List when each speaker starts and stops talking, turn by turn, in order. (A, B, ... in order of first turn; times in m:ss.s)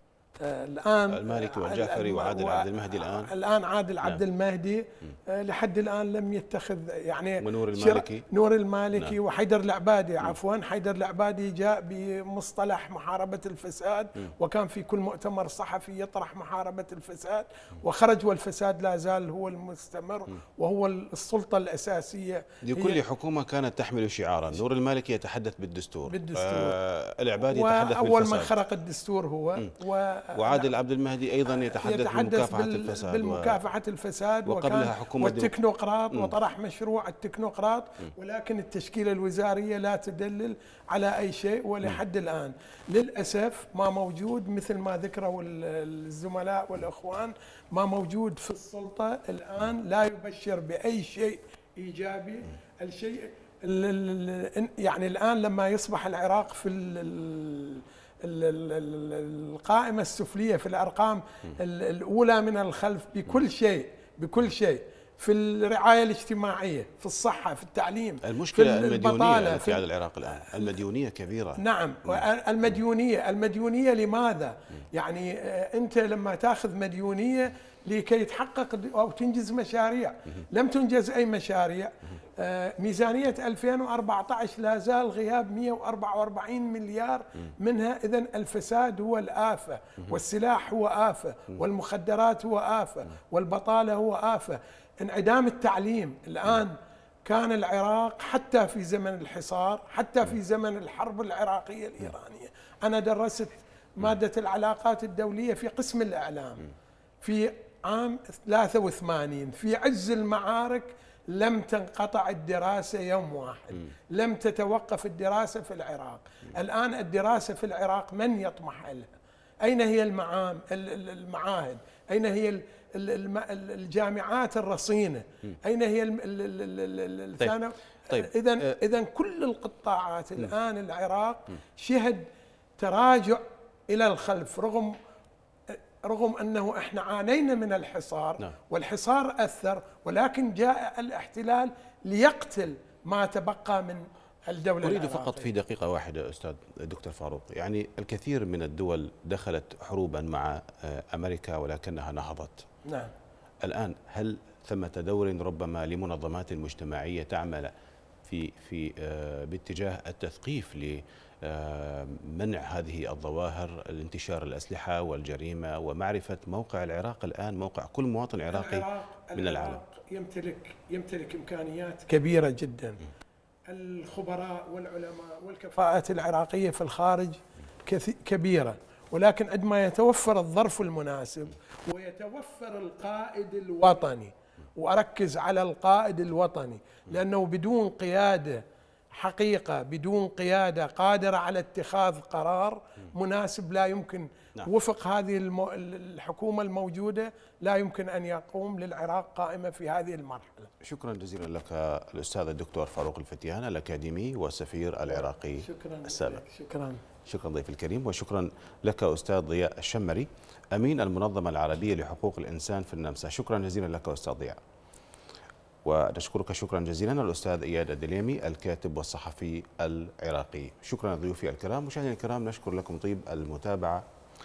0:00.4-0:23.0 A
0:01.1-0:03.3 B
0:07.4-0:08.2 B
0:22.6-0:28.6 B
0:26.1-0:26.8 A
0:27.5-0:30.7 A
0:30.4-0:33.6 B
0:31.5-1:09.8 A
0:34.5-0:35.5 B
1:08.2-1:12.2 B
1:11.6-1:46.6 A
1:47.2-1:59.1 A
1:59.6-2:12.3 A
2:08.1-2:08.8 B
2:12.8-2:15.0 A
2:15.7-2:25.5 A
2:24.8-2:32.7 B
2:32.9-2:33.1 A
2:33.6-2:37.7 B
2:38.2-2:49.8 B
2:48.5-2:53.0 A
2:53.7-3:20.7 A
3:20.8-3:26.4 B
3:25.1-3:27.0 A
3:27.3-3:34.6 B
3:35.8-3:44.0 B